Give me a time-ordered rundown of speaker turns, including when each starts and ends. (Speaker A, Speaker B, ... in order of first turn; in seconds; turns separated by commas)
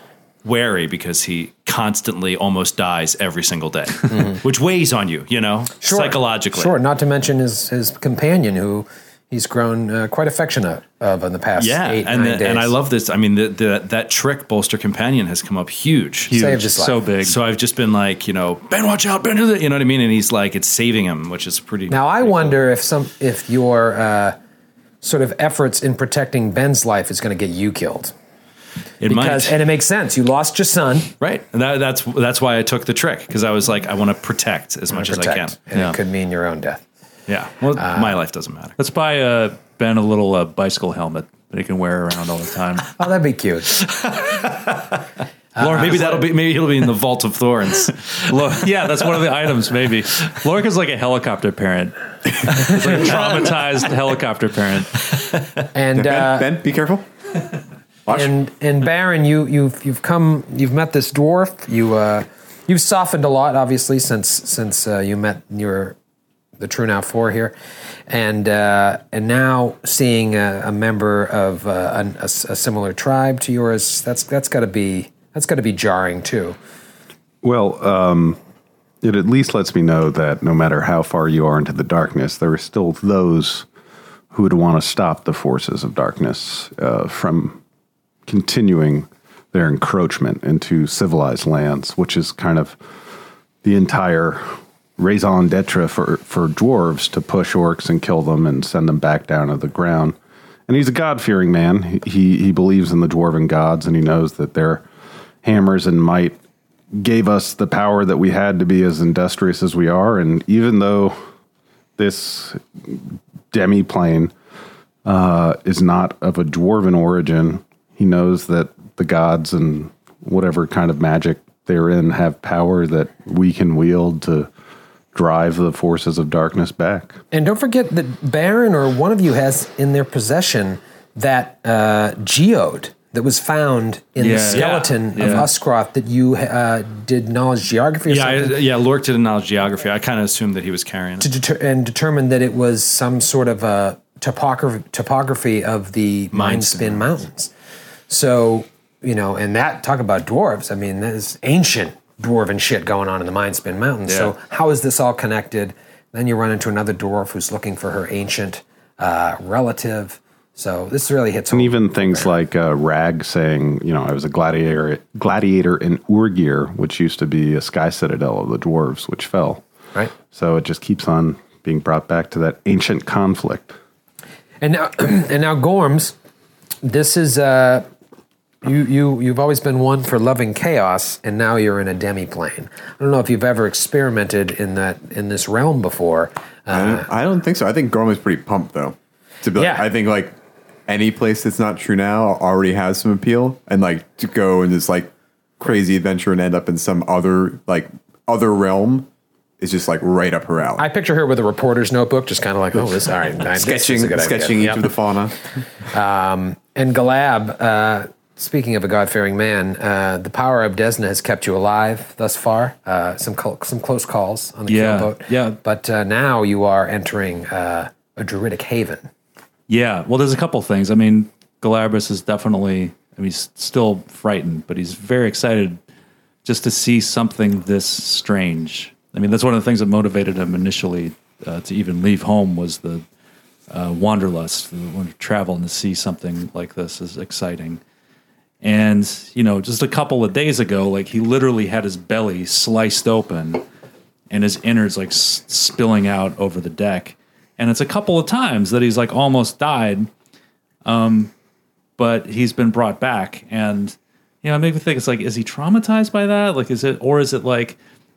Speaker A: 0.4-6.7, Speaker B: 4.1-4.4, Speaker B: 5.8-12.8, Speaker A: 11.6-16.3, Speaker C: 16.3-17.4, Speaker B: 16.3-17.0, Speaker A: 17.2-22.6, Speaker B: 21.9-24.4, Speaker B: 25.0-28.1, Speaker A: 29.0-29.6, Speaker B: 29.1-31.1, Speaker A: 31.2-35.6, Speaker B: 34.9-36.8, Speaker A: 37.3-38.8, Speaker B: 37.7-38.2, Speaker C: 38.8-42.9, Speaker B: 43.0-43.8, Speaker A: 44.1-44.8, Speaker B: 45.5-46.2, Speaker C: 45.6-46.2, Speaker A: 45.7-48.6, Speaker C: 48.3-55.1, Speaker B: 55.7-56.5, Speaker D: 55.9-57.0, Speaker D: 58.1-58.3, Speaker B: 58.1-66.0, Speaker B: 66.6-67.5, Speaker B: 68.1-76.6, Speaker E: 77.4-78.4, Speaker E: 79.0-83.7, Speaker E: 84.3-87.6, Speaker E: 88.3-92.8, Speaker E: 93.6-100.2, Speaker E: 100.7-104.8, Speaker E: 105.4-106.4, Speaker E: 106.9-111.2, Speaker E: 112.0-114.3, Speaker E: 115.0-124.5, Speaker E: 125.1-127.2, Speaker B: 127.3-138.6, Speaker C: 134.2-135.5, Speaker A: 134.5-134.8, Speaker A: 138.1-141.3, Speaker B: 141.2-147.5, Speaker A: 146.3-147.1, Speaker B: 148.1-162.3, Speaker C: 154.1-154.3, Speaker E: 161.5-169.6, Speaker E: 170.3-173.8, Speaker B: 174.6-176.2, Speaker B: 176.8-177.9, Speaker B: 178.6-187.1, Speaker D: 186.7-190.3, Speaker B: 189.6-189.9, Speaker D: 190.9-199.1, Speaker D: 199.6-200.9, Speaker B: 200.8-204.8, Speaker D: 203.3-205.4, Speaker B: 205.9-219.1, Speaker C: 214.7-215.6, Speaker C: 219.7-225.8, Speaker C: 226.4-233.0, Speaker C: 233.7-237.8, Speaker C: 238.6-243.7, Speaker C: 244.3-250.1, Speaker C: 250.8-251.3, Speaker C: 252.0-257.8